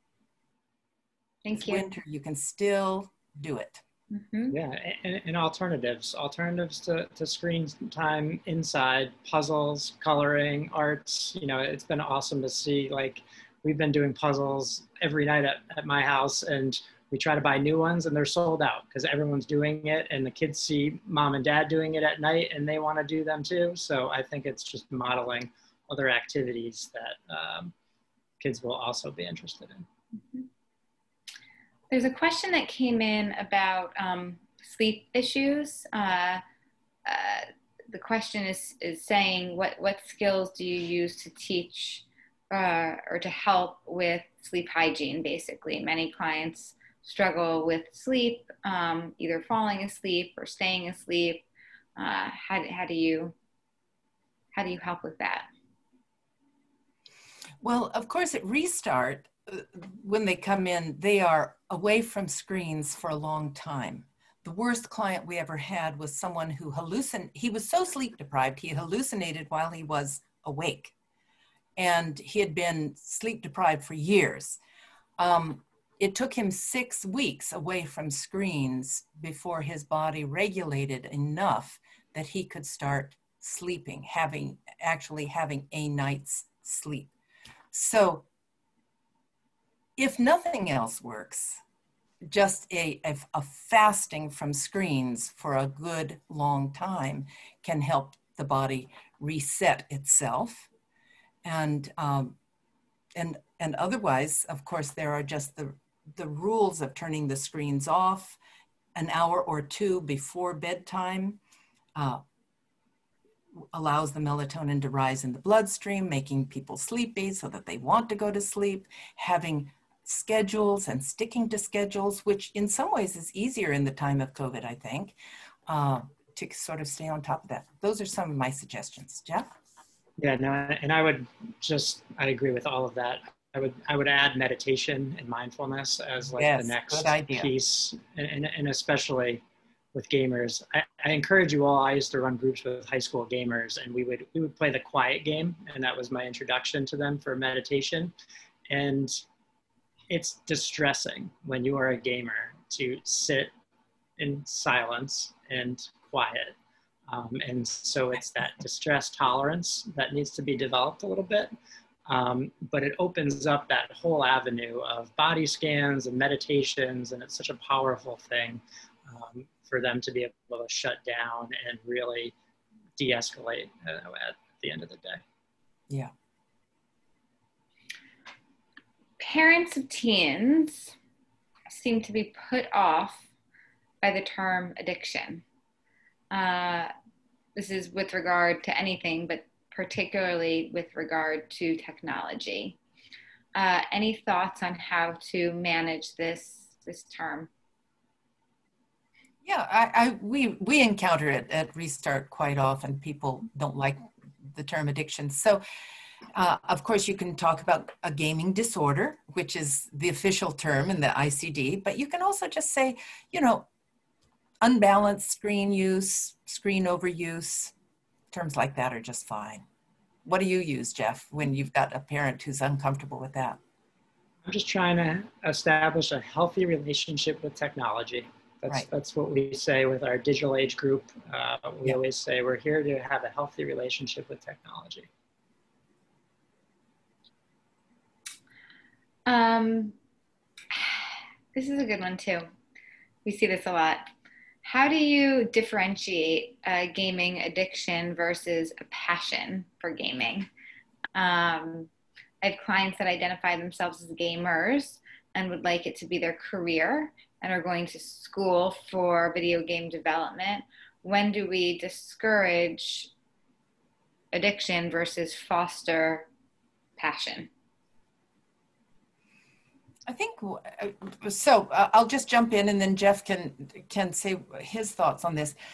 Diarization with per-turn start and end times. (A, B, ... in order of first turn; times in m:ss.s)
0:01.4-0:01.8 A
0:01.5-0:03.8 B
0:04.1-0:04.6 A
0:04.5-0:27.7 C
0:28.4-0:29.8 C
0:31.9-0:36.4 A
0:37.0-0:51.4 A
0:52.0-0:53.3 A
0:54.5-0:55.4 A
0:57.6-1:10.9 B
1:11.8-1:14.6 B
1:15.2-1:27.1 B
1:27.7-1:28.2 B
1:30.0-1:31.6 B
1:32.3-1:40.7 B
1:41.4-1:42.3 B
1:43.2-1:48.4 B
1:48.9-1:51.4 B
1:52.0-1:52.2 B
1:53.7-2:05.1 B
2:05.7-2:09.5 B
2:10.2-2:19.4 C
2:16.4-2:17.5 B
2:19.9-2:28.1 C
2:28.7-2:29.2 C
2:30.1-2:33.5 C
2:34.2-2:36.5 C
2:37.1-2:41.5 C
2:42.1-2:52.3 C
2:53.0-2:55.2 C
2:59.2-3:00.9 A
3:01.7-3:03.2 A
3:04.0-3:05.4 A
3:06.3-3:06.9 A
3:07.6-3:12.8 A
3:13.5-3:17.5 A
3:19.4-3:25.6 B
3:26.3-3:33.6 B
3:34.6-3:37.7 B
3:38.3-3:39.6 B
3:40.2-3:43.6 B
3:44.4-3:55.1 C
3:59.2-3:59.9 A
4:00.7-4:02.5 A
4:03.2-4:04.1 A
4:04.6-4:10.5 A
4:11.1-4:11.9 A
4:12.4-4:23.1 A
4:24.3-4:26.3 A
4:27.0-4:27.5 A
4:30.1-4:35.5 B